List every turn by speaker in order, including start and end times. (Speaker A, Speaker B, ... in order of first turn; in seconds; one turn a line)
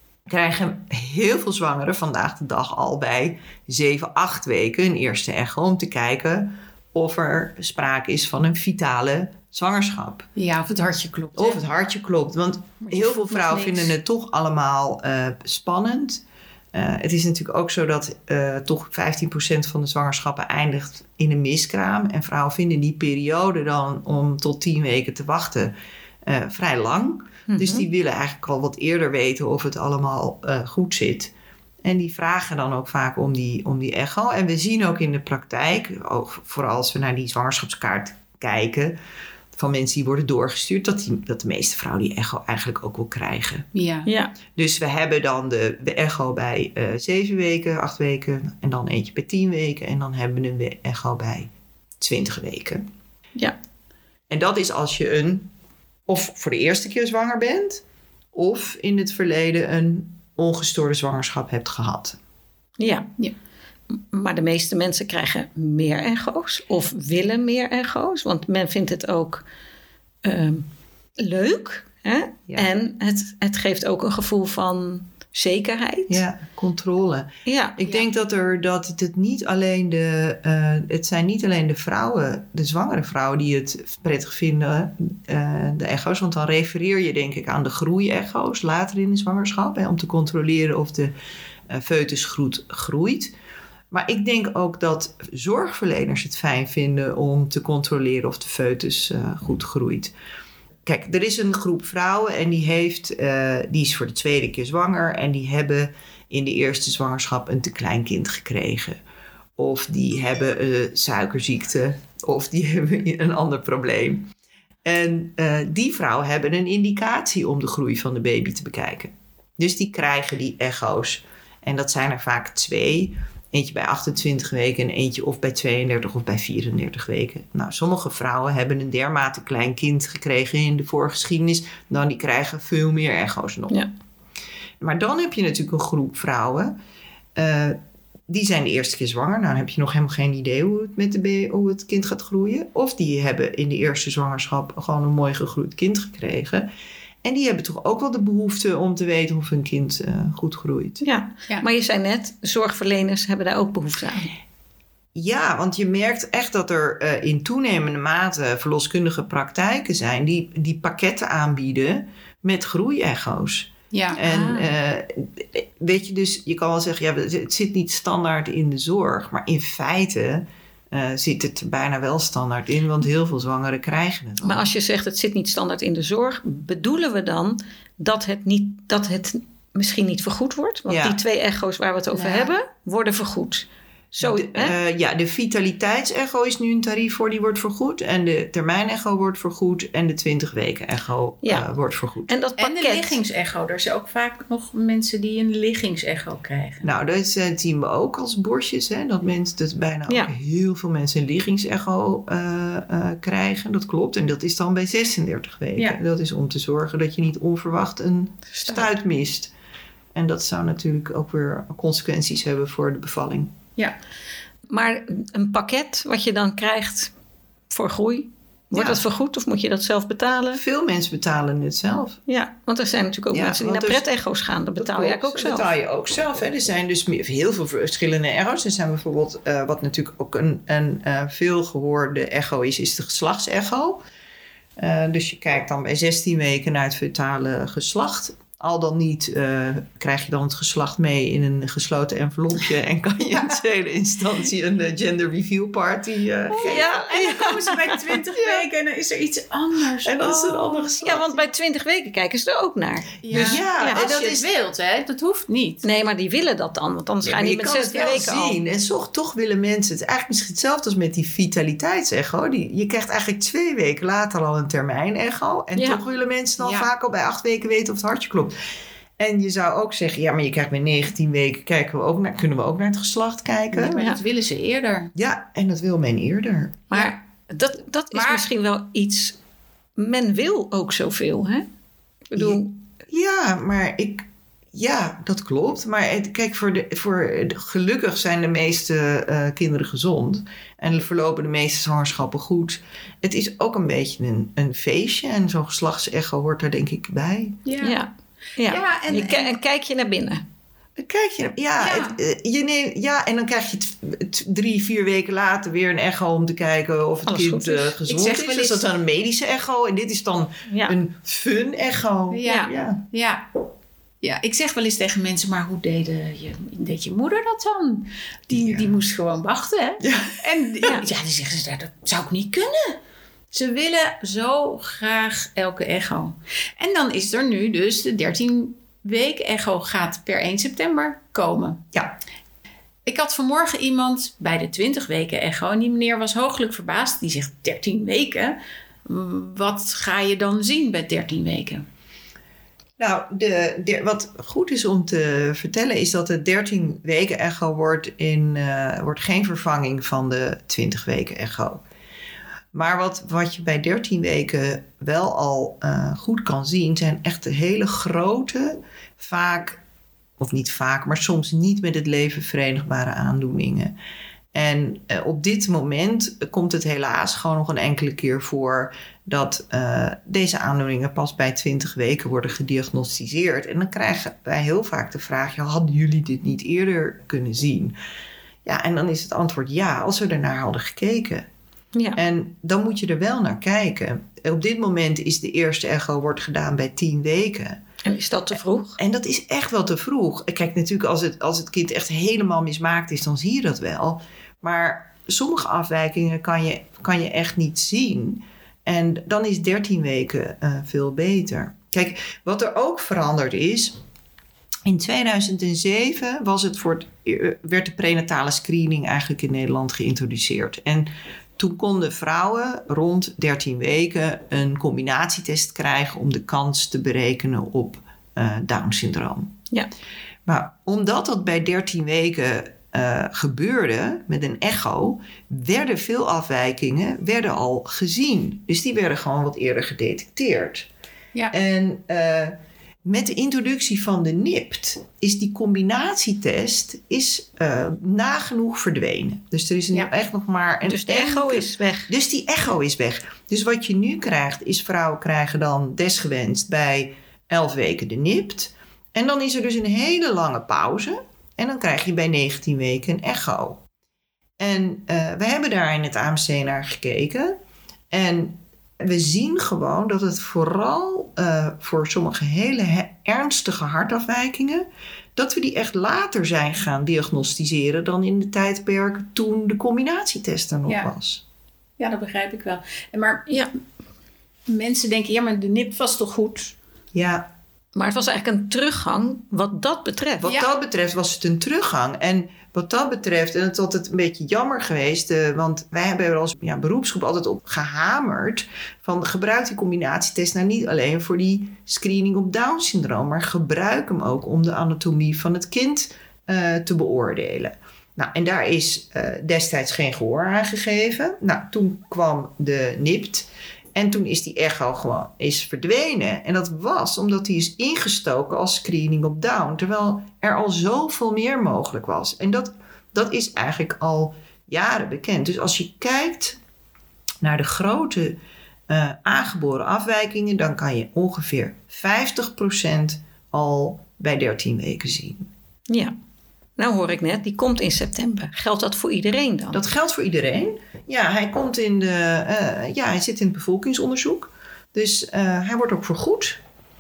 Speaker A: 0.3-10.3
Speaker B: 10.4-11.6
Speaker A: 11.3-25.7
Speaker B: 12.8-13.9
Speaker A: 26.2-31.3
Speaker C: 27.5-27.9
Speaker A: 31.8-39.0
Speaker A: 39.5-43.6
Speaker B: 43.7-44.1
Speaker C: 44.0-44.3
Speaker A: 44.5-52.8
Speaker A: 54.3-55.5
Speaker A: 56.1-57.8
Speaker A: 58.3-62.2
Speaker C: 62.8-63.1
Speaker C: 64.1-69.4
Speaker C: 70.2-70.7
Speaker C: 71.2-76.2
Speaker A: 76.1-91.1
Speaker C: 77.5-77.8
Speaker A: 91.7-93.3
Speaker A: 93.9-100.1
Speaker A: 100.8-109.0
Speaker A: 109.6-114.3
Speaker A: 114.8-133.8
Speaker A: 134.8-136.7
Speaker A: 137.3-146.7
Speaker A: 147.2-151.0
Speaker C: 151.0-154.3
Speaker A: 155.1-174.7
Speaker B: 163.9-164.2
Speaker C: 164.1-164.7
Speaker C: 174.4-183.7
Speaker A: 180.9-181.2
Speaker B: 182.1-182.5
Speaker A: 184.1-192.3
Speaker C: 184.2-184.7
Speaker C: 192.3-193.2
Speaker B: 192.6-196.9
Speaker A: 196.8-209.5
Speaker C: 208.6-208.8
Speaker A: 210.1-213.6
Speaker C: 214.7-217.1
Speaker C: 217.7-220.6
Speaker A: 218.7-219.0
Speaker A: 220.5-222.2
Speaker C: 222.3-225.7
Speaker A: 223.3-224.0
Speaker A: 224.8-234.0
Speaker A: 234.8-246.9
Speaker B: 246.5-251.2
Speaker C: 246.6-248.0
Speaker A: 248.4-248.6
Speaker A: 250.0-251.4
Speaker C: 251.0-254.0
Speaker B: 253.2-255.8
Speaker A: 253.3-254.5
Speaker C: 255.8-258.6
Speaker A: 257.2-268.5
Speaker B: 266.6-266.9
Speaker A: 269.2-274.0
Speaker B: 273.7-275.1
Speaker A: 275.1-276.8
Speaker C: 276.9-279.4
Speaker B: 278.1-278.4
Speaker C: 280.0-281.6
Speaker C: 282.3-282.8
Speaker A: 282.3-297.6
Speaker B: 297.6-297.9
Speaker C: 297.8-300.4
Speaker B: 298.6-299.6
Speaker A: 301.0-313.0
Speaker B: 301.8-302.2
Speaker C: 307.3-307.9
Speaker B: 308.0-308.8
Speaker C: 310.7-311.0
Speaker B: 312.3-313.5
Speaker B: 314.2-323.0
Speaker A: 318.5-318.9
Speaker A: 320.0-320.4
Speaker B: 323.5-331.9
Speaker B: 333.0-341.9
Speaker A: 343.0-351.8
Speaker A: 352.7-359.8
Speaker A: 360.4-363.9
Speaker A: 364.5-377.9
Speaker A: 378.6-381.5
Speaker C: 381.9-382.2
Speaker A: 382.1-387.8
Speaker C: 388.0-389.0
Speaker A: 389.0-403.9
Speaker A: 404.9-419.6
Speaker A: 420.4-430.9
Speaker A: 431.5-453.8
Speaker C: 440.9-442.1
Speaker A: 454.6-457.6
Speaker A: 458.1-471.4
Speaker B: 472.0-473.6
Speaker B: 474.7-476.8
Speaker A: 477.1-477.5
Speaker C: 477.9-480.5
Speaker A: 480.4-516.6
Speaker A: 517.4-525.5
Speaker C: 525.9-526.1
Speaker C: 526.8-529.8
Speaker A: 529.7-536.6